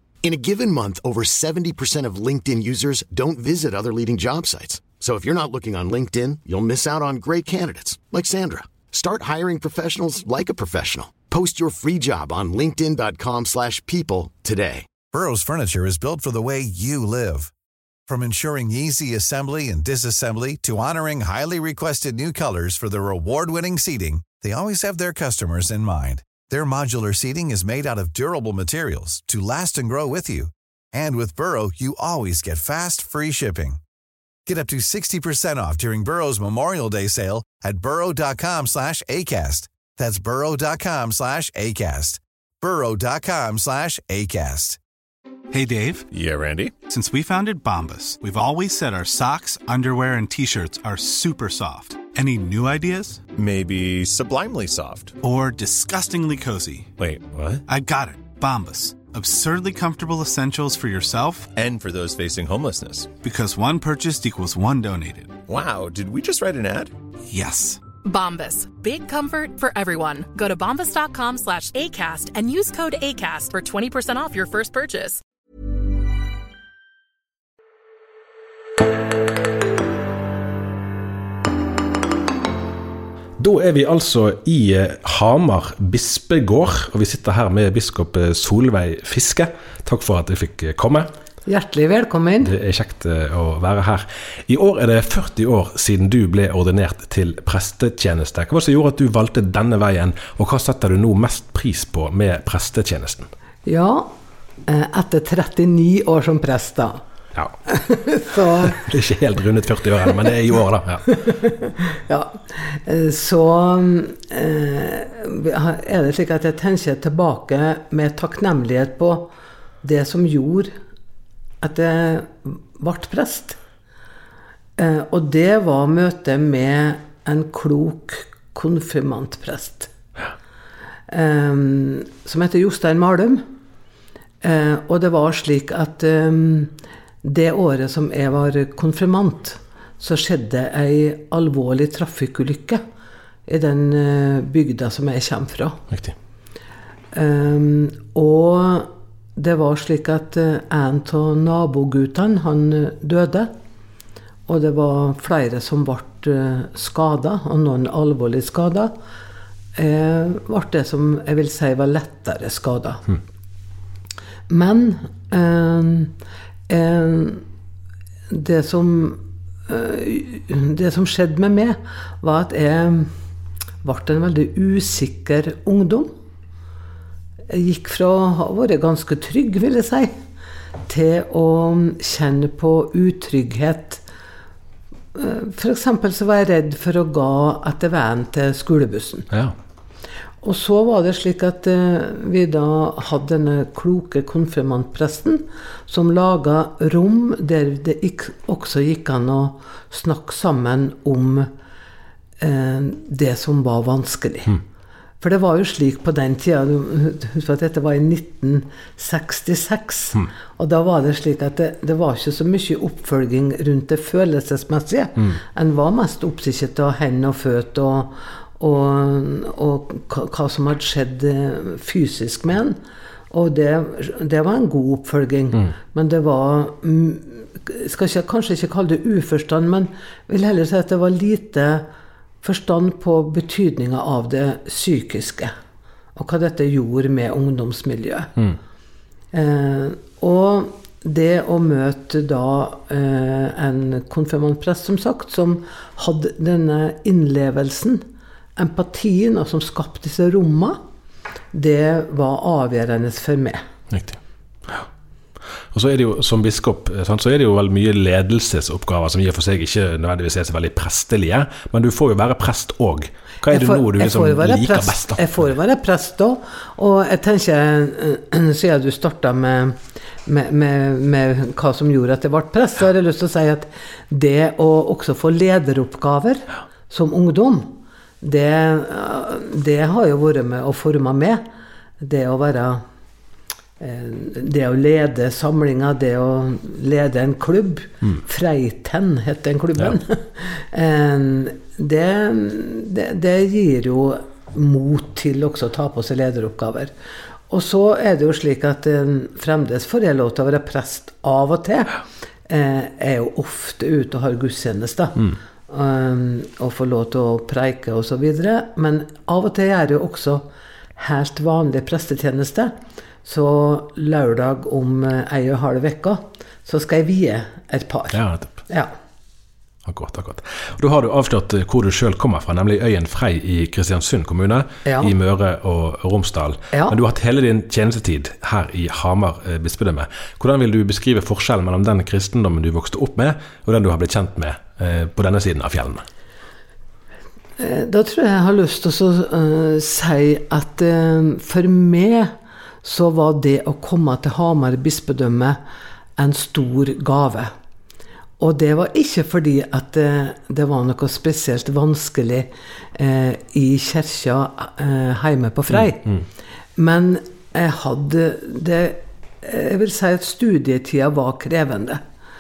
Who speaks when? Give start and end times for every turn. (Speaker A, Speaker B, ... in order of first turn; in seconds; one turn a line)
Speaker A: 0.2-14.9
Speaker B: 15.1-17.5
Speaker B: 18.1-33.8
Speaker B: 34.5-44.8
Speaker C: 45.5-46.1
Speaker D: 46.1-46.7
Speaker C: 46.9-53.2
Speaker D: 53.3-55.2
Speaker C: 55.2-56.9
Speaker D: 57.0-57.6
Speaker C: 57.7-61.5
Speaker D: 61.5-63.1
Speaker C: 63.2-65.4
Speaker D: 65.5-66.9
Speaker C: 67.3-67.8
Speaker E: 68.0-75.2
Speaker F: 83.4-91.1
Speaker G: 91.5-92.5
Speaker F: 92.4-103.3
Speaker G: 103.7-104.1
Speaker G: 104.7-107.0
Speaker G: 107.7-108.8
Speaker F: 108.7-111.1
Speaker G: 111.1-119.3
Speaker G: 119.8-120.7
Speaker G: 121.6-123.6
Speaker G: 124.8-129.9
Speaker G: 131.1-133.4
Speaker G: 134.4-142.8
Speaker G: 143.5-145.8
Speaker G: 147.1-153.5
Speaker G: 154.5-158.9
Speaker G: 159.8-163.1
Speaker G: 164.5-166.1
Speaker G: 166.7-167.4
Speaker G: 168.3-173.2
Speaker G: 173.8-176.1
Speaker G: 177.5-180.2
Speaker G: 180.9-184.0
Speaker G: 185.2-189.3
Speaker G: 190.4-201.5
Speaker G: 202.4-204.6
Speaker G: 205.2-222.8
Speaker G: 223.3-231.8
Speaker G: 232.4-235.5
Speaker G: 236.2-238.3
Speaker G: 239.3-248.1
Speaker G: 248.6-250.8
Speaker G: 251.5-253.6
Speaker F: 253.9-254.9
Speaker F: 255.7-265.4
Speaker G: 263.5-281.4
Speaker G: 282.0-282.8
Speaker G: 283.8-296.9
Speaker G: 297.5-310.5
Speaker G: 311.0-318.9
Speaker F: 318.1-318.5
Speaker F: 319.9-336.1
Speaker G: 324.9-325.1
Speaker G: 337.6-345.6
Speaker G: 346.2-347.5
Speaker G: 348.4-356.2
Speaker G: 356.8-362.0